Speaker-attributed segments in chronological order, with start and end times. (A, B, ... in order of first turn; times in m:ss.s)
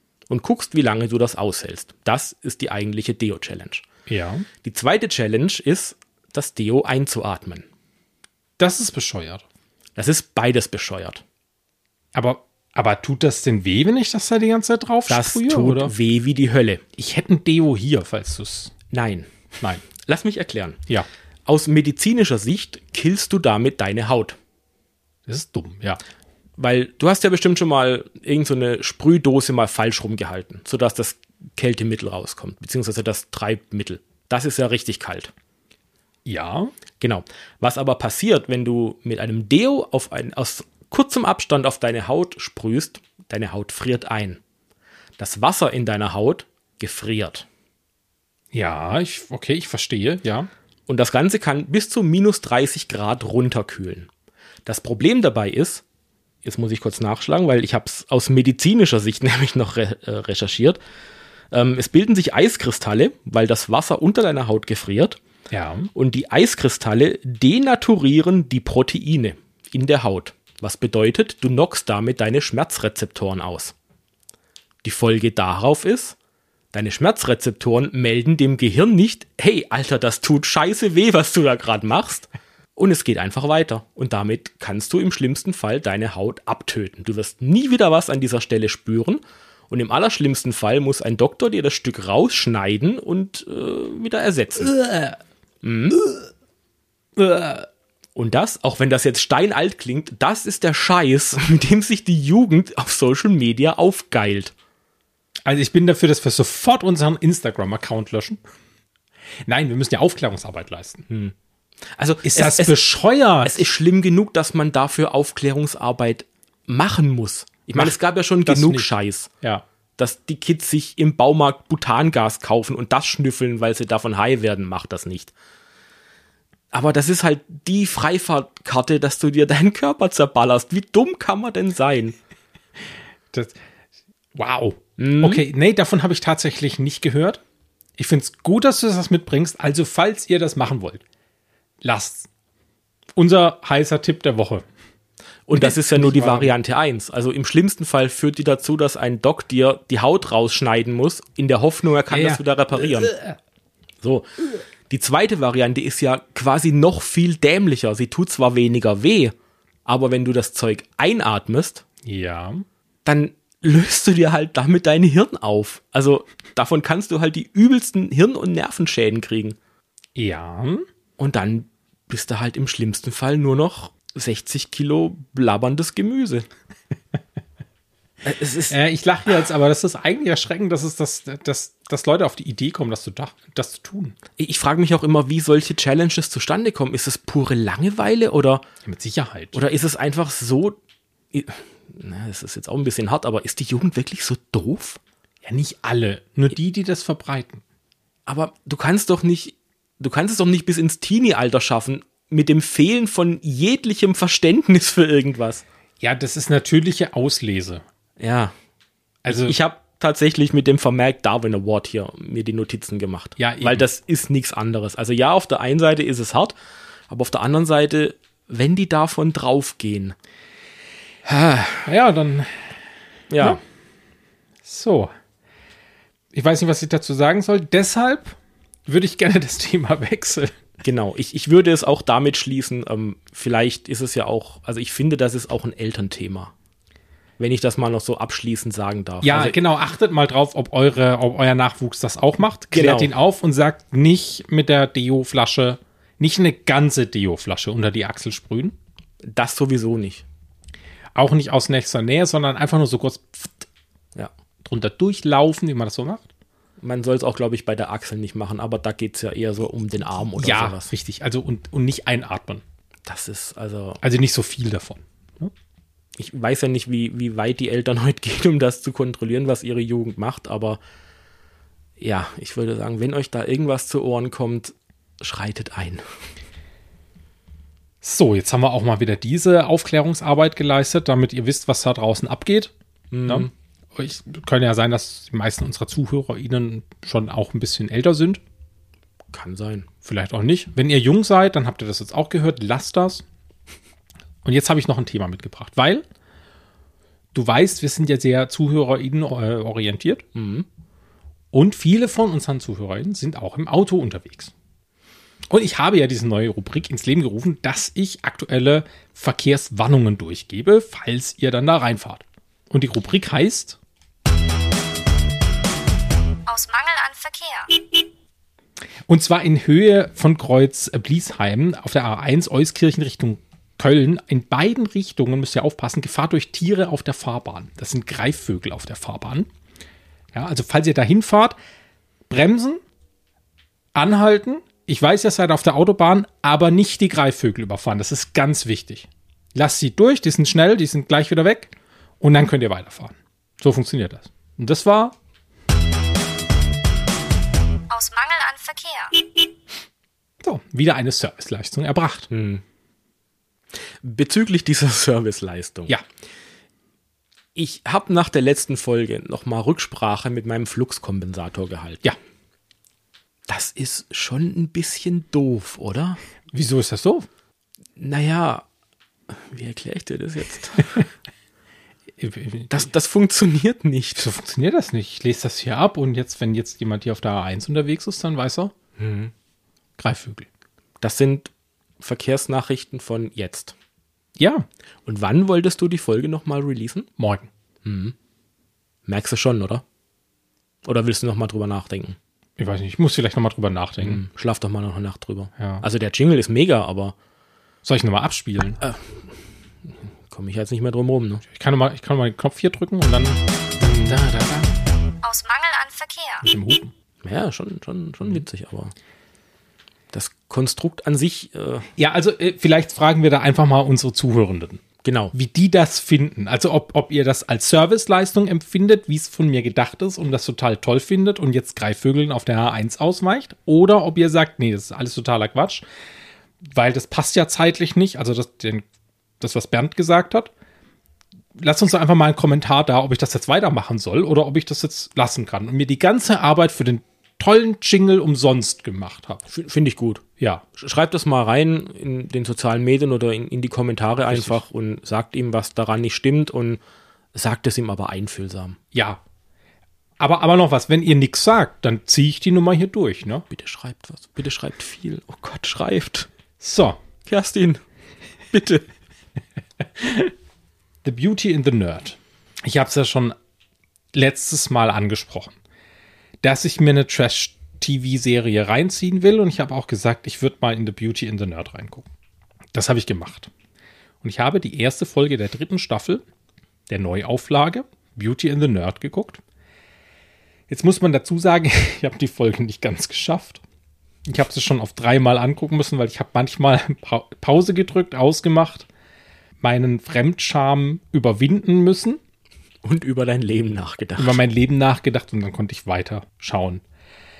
0:00.3-0:03.8 A
0:04.1-0:04.5 B
0:04.6-0:07.7 A
0:08.6-0:09.4 B
0:10.0-0:11.2 A
0:12.2-0:15.9 B
0:15.1-0:16.8 A
0:17.0-0:18.7 B
0:18.9-0:19.3 A
0:19.8-0:20.8 A
0:21.5-0:24.4 A
0:25.3-0:26.0 B
0:26.6-0:35.3 A
0:36.2-0:36.7 B
0:37.0-0:44.4 A
0:45.2-0:47.5 A
0:48.5-0:50.5 B
0:50.9-0:54.1 A
0:54.7-0:55.8 A
0:56.4-1:00.8 A
1:01.5-1:05.2 A
1:05.5-1:05.9 B
1:06.0-1:13.7 A
1:14.8-1:16.2 A
1:16.7-1:34.7 A
1:34.6-1:35.2 B
1:35.6-1:36.0 A
1:35.9-1:36.3 B
1:37.2-1:37.7 B
1:38.2-1:44.5 A
1:45.4-1:48.4 B
1:49.5-1:51.1 B
1:51.1-1:51.3 A
1:52.0-1:52.8 A
1:52.2-1:53.7 B
1:53.4-1:59.3 A
1:58.5-1:58.9 B
2:00.0-2:05.3 A
2:06.7-2:12.2 A
2:13.3-2:13.6 B
2:14.4-2:17.4 B
2:15.0-2:15.4 A
2:18.0-2:21.0 B
2:21.8-2:22.3 B
2:23.2-2:24.6 B
2:25.5-2:33.2 A
2:25.5-2:26.5 B
2:32.1-2:33.4 B
2:34.0-2:34.3 A
2:34.9-2:39.3 A
2:39.9-2:41.8 A
2:42.0-2:42.6 B
2:43.0-2:49.6 A
2:50.2-2:50.9 B
2:51.2-2:56.5 A
2:58.2-2:58.8 A
2:58.7-3:04.2 B
3:04.4-3:08.6 A
3:08.8-3:09.6 B
3:09.5-3:10.8 A
3:11.3-3:15.0 A
3:15.4-3:17.6 B
3:18.3-3:25.6 A
3:26.0-3:27.8 B
3:28.2-3:28.5 A
3:29.2-3:29.6 B
3:29.3-3:36.5 A
3:33.4-3:33.8 B
3:37.1-3:40.2 A
3:41.3-3:41.9 A
3:41.8-3:42.8 B
3:43.3-3:43.6 A
3:44.6-3:45.1 B
3:46.3-3:50.6 B
3:50.8-3:56.5 A
3:57.4-3:59.6 A
3:59.2-4:08.8 B
4:02.7-4:03.1 A
4:09.2-4:10.2 A
4:11.2-4:13.7 B
4:14.6-4:16.3 B
4:16.8-4:20.9 A
4:20.4-4:22.6 B
4:23.1-4:24.0 A
4:24.0-4:25.5 B
4:26.2-4:30.8 A
4:32.0-4:36.0 A
4:38.0-4:42.7 B
4:43.1-4:43.5 A
4:43.3-4:48.4 B
4:49.3-4:49.9 A
4:50.0-4:53.2 B
4:54.4-4:56.0 B
4:57.3-5:00.2 B
5:00.4-5:00.7 A
5:01.5-5:04.5 B
5:05.5-5:13.8 B
5:16.5-5:18.1 C
5:19.1-5:29.5 B
5:30.3-5:31.6 B
5:32.3-5:32.8 B
5:34.0-5:45.2 B
5:47.9-5:49.5 C
5:50.4-5:52.3 B
5:52.3-5:52.6 A
5:54.0-5:56.0 A
5:57.6-6:02.1 A
6:03.5-6:06.2 A
6:06.5-6:07.3 B
6:08.0-6:08.6 A
6:09.3-6:11.0 A
6:12.2-6:12.9 B
6:12.7-6:14.2 A
6:14.2-6:18.7 B
6:19.0-6:19.3 A
6:20.0-6:20.5 B
6:21.0-6:23.7 A
6:24.4-6:24.7 B
6:25.1-6:27.1 A
6:27.2-6:27.5 B
6:27.8-6:28.1 A
6:29.1-6:29.8 A
6:30.8-6:32.2 A
6:32.6-6:34.2 B
6:34.0-6:37.2 A
6:35.6-6:35.8 B
6:37.8-6:38.8 B
6:38.8-6:39.1 A
6:40.3-6:41.4 A
6:41.4-6:44.7 B
6:43.8-6:44.2 A
6:45.2-6:46.5 C
6:46.4-6:46.9 B
6:47.2-6:48.9 A
6:50.1-6:51.9 A
6:52.0-6:54.8 B
6:55.0-6:55.3 A
6:55.3-7:05.8 B
7:06.6-7:08.8 B
7:09.4-7:10.5 B
7:11.6-7:19.5 B
7:19.5-7:20.2 A
7:20.8-7:26.8 A
7:24.3-7:24.6 B
7:27.4-7:28.8 A
7:28.9-7:29.2 B
7:30.2-7:33.5 B
7:33.5-7:36.3 A
7:36.6-7:37.0 B
7:37.3-7:37.8 A
7:38.5-7:38.8 A
7:40.0-7:40.3 B
7:41.0-7:43.4 B
7:44.1-7:45.5 B
7:46.4-7:52.1 B
7:52.7-7:53.5 B
7:54.2-7:56.2 B
7:56.9-7:59.4 B
8:00.7-8:03.6 B
8:04.3-8:08.9 B
8:09.6-8:12.2 B
8:12.8-8:14.4 A
8:14.2-8:16.8 B